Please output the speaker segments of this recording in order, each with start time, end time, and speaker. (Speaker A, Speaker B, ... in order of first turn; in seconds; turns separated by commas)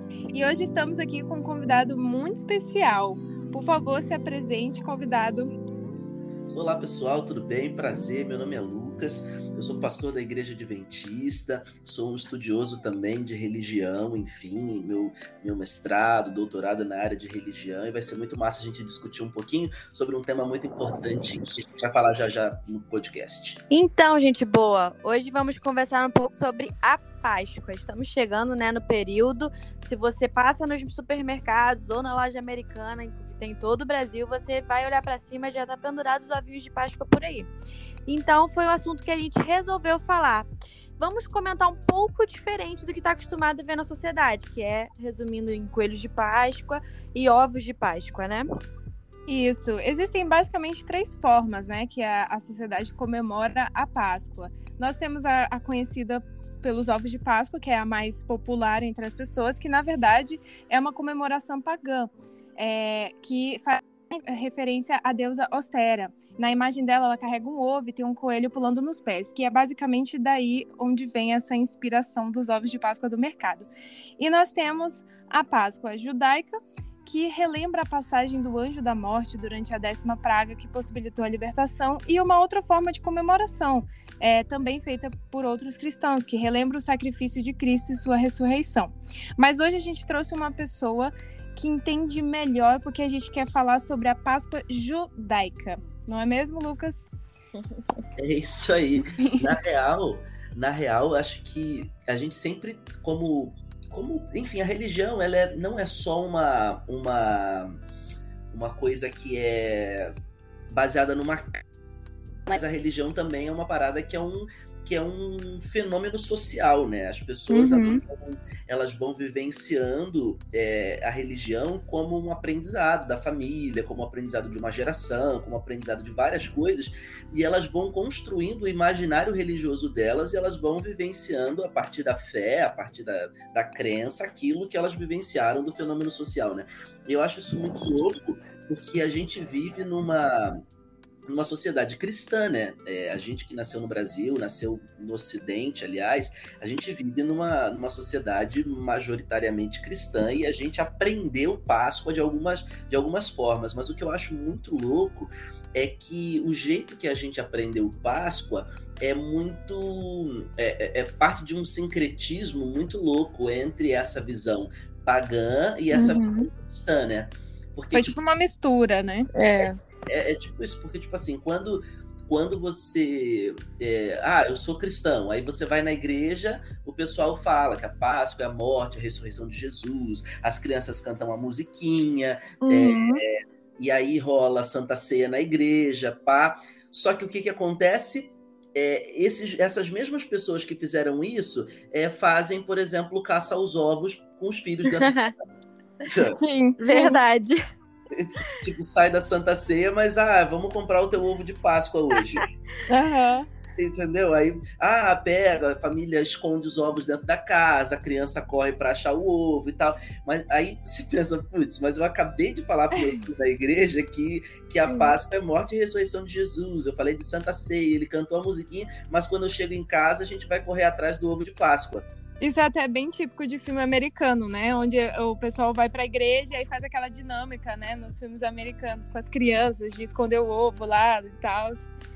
Speaker A: 0.3-5.5, Speaker B: 6.5-23.6, Speaker C: 23.7-37.5, Speaker C: 38.1-48.5, Speaker A: 49.3-97.1, Speaker B: 98.2-107.8, Speaker B: 108.5-110.1, Speaker B: 110.7-111.6, Speaker B: 112.5-140.6, Speaker A: 117.5-118.0, Speaker B: 141.3-168.2, Speaker A: 165.9-166.5, Speaker A: 167.9-169.3, Speaker C: 169.3-169.8, Speaker B: 169.6-195.3, Speaker A: 182.7-183.2, Speaker C: 194.9-195.3, Speaker B: 196.1-196.4, Speaker A: 196.3-197.2, Speaker C: 196.8-197.6, Speaker B: 198.1-202.4, Speaker A: 202.9-203.5, Speaker B: 203.8-222.1, Speaker A: 222.4-231.9